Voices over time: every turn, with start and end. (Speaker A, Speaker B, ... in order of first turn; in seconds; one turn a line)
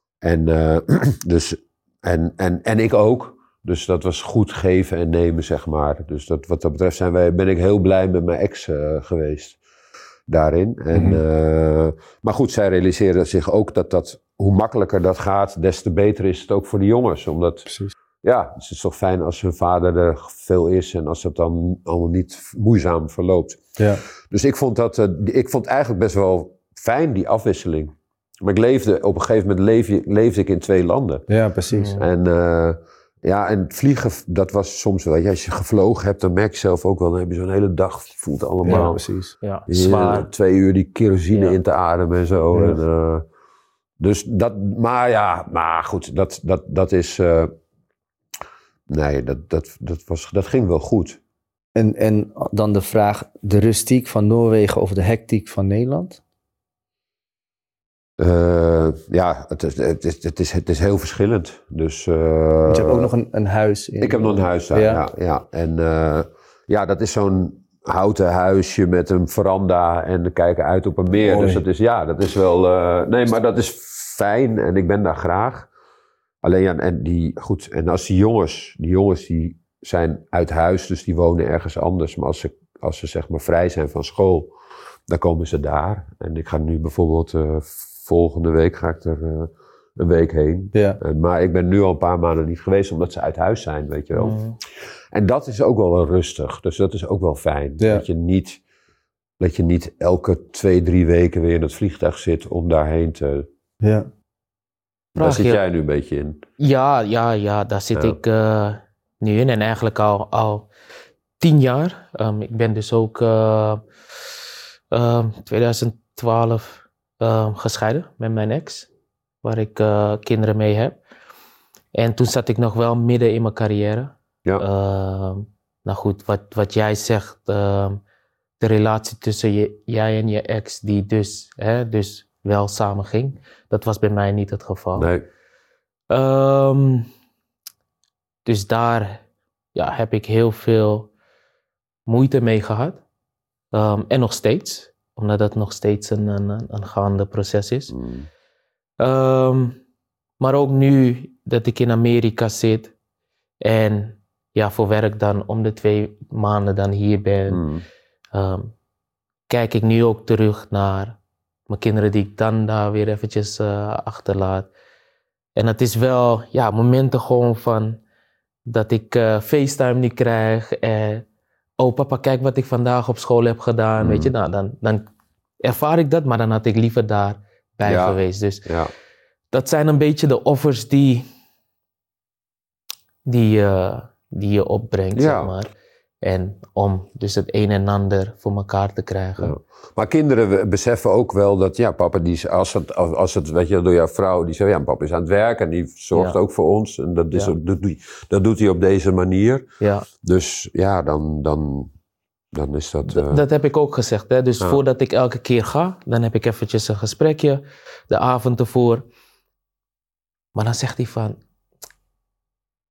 Speaker A: 0.2-9.6
Speaker A: 10.3-17.6
Speaker B: 10.9-11.2
Speaker B: 17.7-17.9
Speaker A: 18.2-23.6
Speaker A: 24.3-31.2
Speaker B: 31.3-32.0
Speaker C: 31.7-32.0
Speaker A: 32.0-39.0
Speaker B: 38.6-39.4
Speaker C: 38.7-40.3
Speaker A: 39.7-43.3
Speaker B: 42.5-42.8
Speaker A: 44.0-47.5
Speaker A: 48.9-51.2
Speaker B: 51.8-56.2
Speaker A: 58.2-63.1
Speaker B: 62.7-65.0
Speaker A: 64.0-75.7
Speaker B: 71.2-71.6
Speaker A: 76.4-84.5
Speaker A: 85.1-94.4
Speaker B: 90.7-91.0
Speaker C: 94.1-94.6
Speaker A: 95.1-98.6
Speaker A: 99.4-103.5
Speaker B: 103.8-104.1
Speaker A: 105.2-106.4
Speaker C: 105.2-105.6
Speaker C: 106.6-110.7
Speaker C: 111.4-113.8
Speaker C: 114.9-118.9
Speaker C: 119.4-121.0
Speaker C: 121.9-128.0
Speaker C: 128.6-135.1
Speaker A: 134.9-135.2
Speaker C: 136.1-137.1
Speaker C: 138.4-139.2
Speaker C: 139.8-141.1
Speaker C: 142.1-143.0
Speaker C: 143.7-147.9
Speaker A: 147.9-148.3
Speaker C: 149.0-149.8
Speaker C: 150.4-152.9
Speaker C: 153.6-157.6
Speaker A: 157.5-157.8
Speaker C: 158.3-158.7
Speaker C: 159.5-161.2
Speaker C: 161.7-164.7
Speaker C: 165.6-168.0
Speaker C: 168.7-171.2
Speaker C: 171.8-175.1
Speaker A: 174.0-174.3
Speaker C: 175.6-178.7
Speaker A: 177.8-178.9
Speaker C: 179.5-181.2
Speaker C: 183.2-185.7
Speaker A: 185.1-185.5
Speaker C: 186.2-189.6
Speaker A: 189.4-199.6
Speaker C: 199.8-200.1
Speaker A: 200.2-201.9
Speaker A: 202.5-203.4
Speaker C: 203.1-209.1
Speaker C: 210.6-211.4